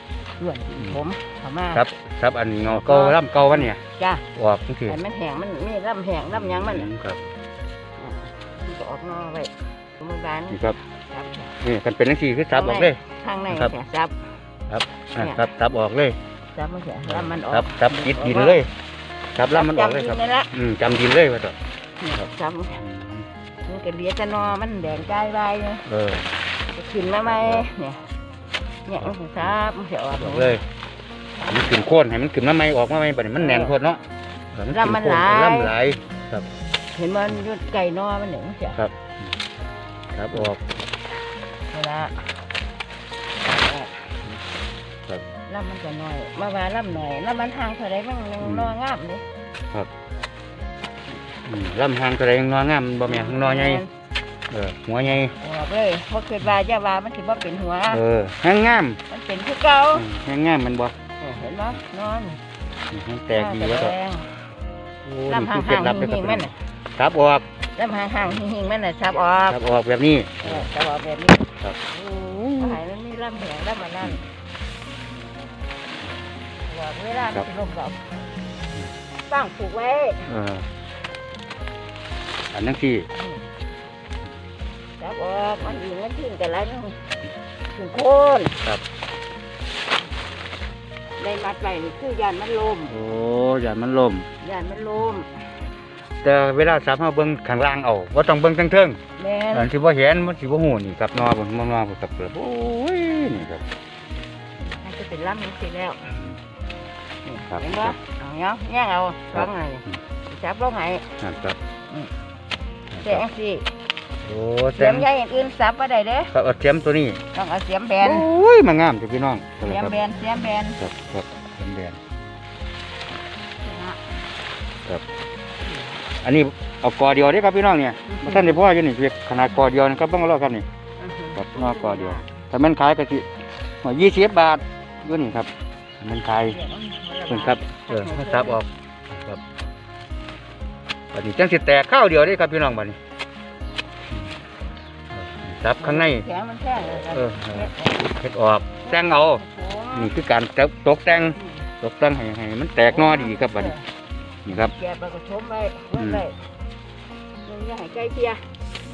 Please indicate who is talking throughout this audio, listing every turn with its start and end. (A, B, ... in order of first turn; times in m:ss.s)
0:00.4-0:01.8 A
0:01.7-0:03.8 B
0:02.8-0:04.2 A
0:04.3-0:05.0 B
0:04.9-0:06.9 A
0:06.3-0:07.2 B
0:08.0-0:11.5 A
0:10.5-0:10.8 B
0:11.6-0:13.7 B
0:12.5-0:14.2 A
0:14.7-0:16.2 B
0:15.2-0:15.5 A
0:16.5-0:18.6 A
0:17.1-0:18.7 B
0:19.4-0:21.6 B
0:19.4-0:20.5 A
0:22.0-0:22.8 A
0:22.8-0:23.3 B
0:23.6-0:25.9 A
0:25.9-0:26.3 B
0:26.7-0:28.1 A
0:27.1-0:27.7 B
0:28.9-0:30.6 A
0:29.0-0:29.5 B
0:30.1-0:30.6 B
0:31.5-0:34.0 B
0:33.4-0:33.8 A
0:34.5-0:36.5 B
0:34.7-0:35.7 A
0:36.9-0:38.8 A
0:40.1-0:40.6 B
0:41.7-0:42.2 A
0:43.5-0:43.9 A
0:45.5-0:49.2 A
0:48.4-0:48.8 B
0:51.4-0:53.8 B
0:53.1-0:53.9 A
0:54.5-0:55.3 B
0:55.4-0:58.0 A
0:57.9-0:59.0 B
0:59.1-1:00.1 A
0:59.9-1:00.9 B
1:01.2-1:02.4 A
1:02.9-1:04.0 B
1:03.3-1:04.3 A
1:05.0-1:07.4 B
1:05.3-1:06.6 A
1:07.8-1:09.7 A
1:09.5-1:10.7 B
1:10.4-1:11.6 A
1:11.6-1:12.8 B
1:12.6-1:14.2 A
1:16.7-1:18.2 A
1:19.3-1:20.4 A
1:20.3-1:20.7 B
1:22.5-1:23.1 B
1:25.0-1:27.1 A
1:27.7-1:28.6 A
1:31.2-1:33.0 A
1:32.9-1:34.3 B
1:34.4-1:35.3 A
1:36.2-1:39.0 B
1:39.2-1:39.7 A
1:39.5-1:43.6 B
1:44.6-1:46.1 A
1:47.2-1:51.1 A
1:47.5-1:48.0 B
1:51.2-1:51.6 B
1:52.9-1:53.2 B
1:53.0-1:53.7 A
1:54.2-1:55.1 B
1:54.8-1:56.3 A
1:56.3-1:57.2 B
1:57.3-1:58.3 A
1:58.0-2:00.0 B
1:59.6-2:00.8 A
2:00.8-2:02.0 B
2:03.6-2:04.0 A
2:06.2-2:10.6 B
2:08.1-2:08.6 A
2:11.0-2:12.2 A
2:11.4-2:13.3 B
2:13.8-2:16.6 B
2:16.4-2:18.6 A
2:17.3-2:19.4 B
2:21.1-2:23.0 B
2:25.1-2:26.2 B
2:25.8-2:28.0 A
2:27.0-2:33.8 B
2:28.9-2:30.2 A
2:31.4-2:31.7 A
2:32.9-2:33.9 A
2:34.4-2:34.7 B
2:34.6-2:36.4 A
2:36.0-2:36.2 B
2:37.4-2:38.4 A